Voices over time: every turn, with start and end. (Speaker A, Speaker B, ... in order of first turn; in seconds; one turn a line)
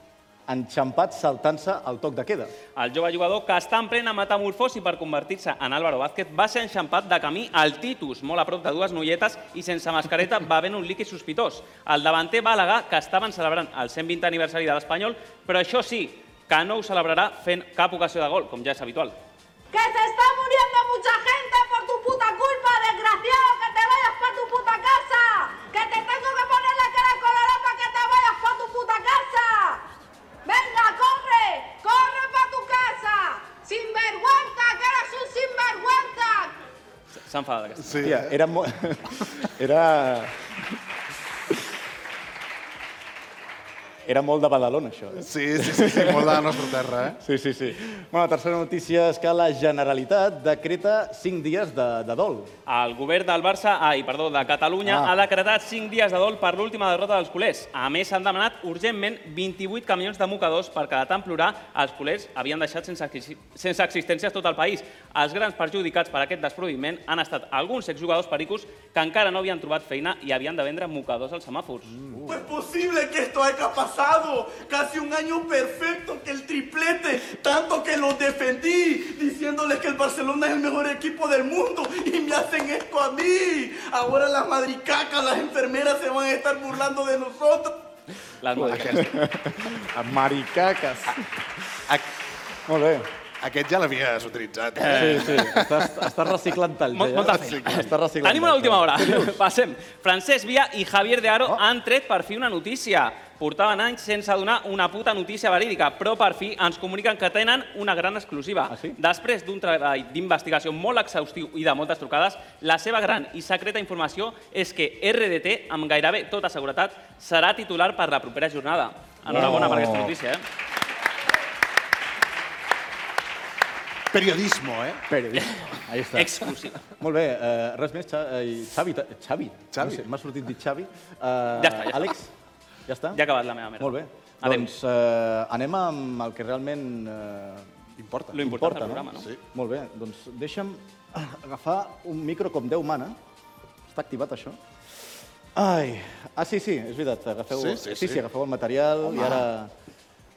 Speaker A: 0.5-2.5
Speaker B: 2.8-19.1
Speaker C: 19.7-29.8
Speaker C: 30.4-36.5
Speaker B: 37.2-38.1
Speaker D: 37.8-38.3
Speaker A: 38.0-40.4
Speaker A: 44.0-46.5
Speaker D: 45.2-47.2
Speaker A: 47.2-52.5
Speaker B: 52.7-71.9
Speaker A: 54.8-55.1
Speaker D: 72.0-72.4
Speaker E: 72.2-87.8
Speaker B: 88.4-89.1
Speaker A: 88.5-91.2
Speaker A: 92.7-93.1
Speaker D: 93.4-95.8
Speaker B: 94.8-95.4
Speaker A: 94.8-99.4
Speaker B: 96.9-120.4
Speaker D: 97.2-97.9
Speaker A: 108.7-109.0
Speaker A: 119.3-120.1
Speaker D: 124.1-125.0
Speaker A: 125.1-132.3
Speaker B: 126.2-126.8
Speaker D: 129.7-130.0
Speaker B: 131.6-132.1
Speaker A: 132.9-133.2
Speaker B: 133.1-134.7
Speaker A: 133.8-137.7
Speaker D: 138.0-138.4
Speaker B: 138.3-139.3
Speaker A: 138.3-143.2
Speaker D: 139.1-139.4
Speaker A: 143.9-144.6
Speaker A: 145.5-149.7
Speaker D: 147.5-148.2
Speaker D: 149.1-149.4